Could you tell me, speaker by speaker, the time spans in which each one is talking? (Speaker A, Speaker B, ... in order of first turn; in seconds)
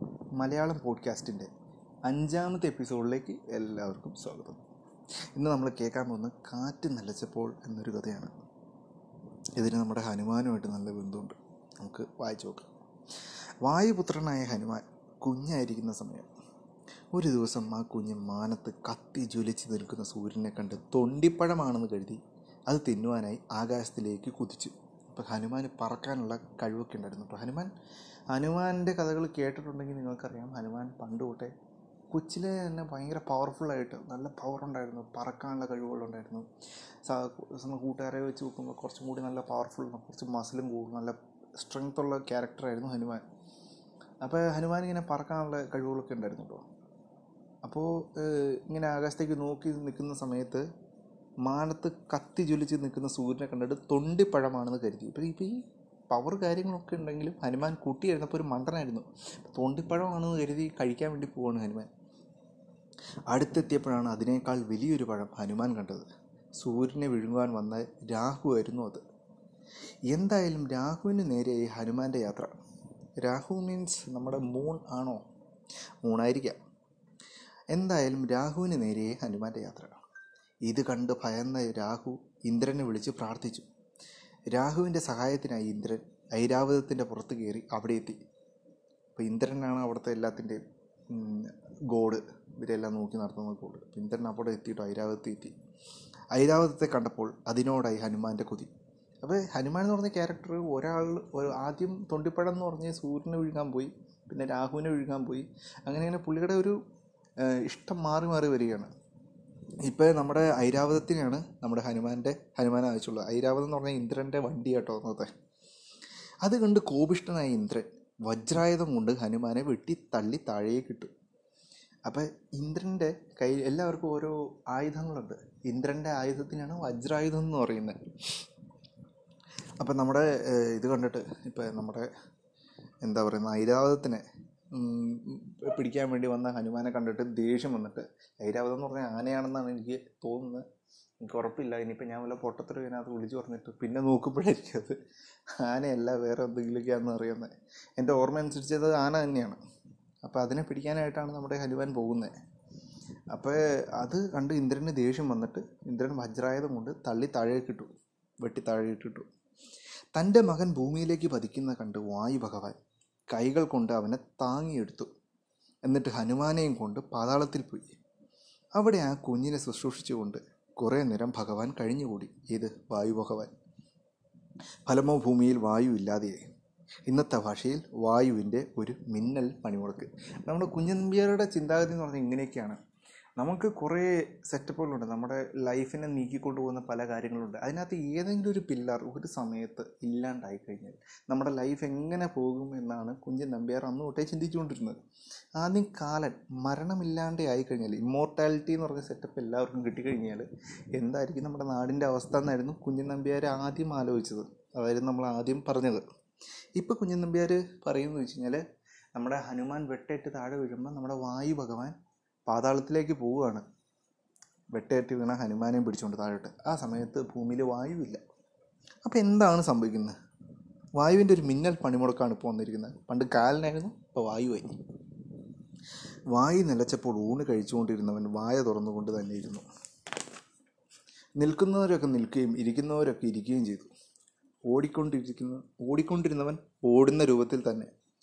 Speaker A: 0.4-1.5, 2.1-4.6, 5.4-8.3, 9.6-12.7, 13.6-16.3, 17.1-27.7, 28.3-31.5, 32.1-36.5, 37.0-43.2, 44.2-46.6, 47.6-50.6, 51.4-55.6, 56.1-61.9, 63.3-66.1, 66.6-69.0, 70.1-72.6, 73.2-75.2, 76.0-76.6, 77.7-80.0, 80.7-83.7, 84.5-88.2, 89.2-95.5, 96.3-98.7, 99.2-106.8, 107.5-108.9, 109.8-115.3, 116.4-121.1, 122.1-128.0, 129.8-132.1, 133.0-140.7, 141.2-144.9, 145.6-149.6, 150.2-152.3, 153.3-157.9, 158.4-159.3, 160.1-162.8, 163.3-165.1, 165.8-167.9, 168.8-173.5, 174.9-176.4, 177.1-182.8, 183.4-195.0, 195.6-206.0, 206.8-208.6, 209.1-211.9, 212.5-213.6, 214.7-218.2, 219.0-220.1, 220.9-224.7, 226.3-229.6, 231.4-233.9, 234.7-237.9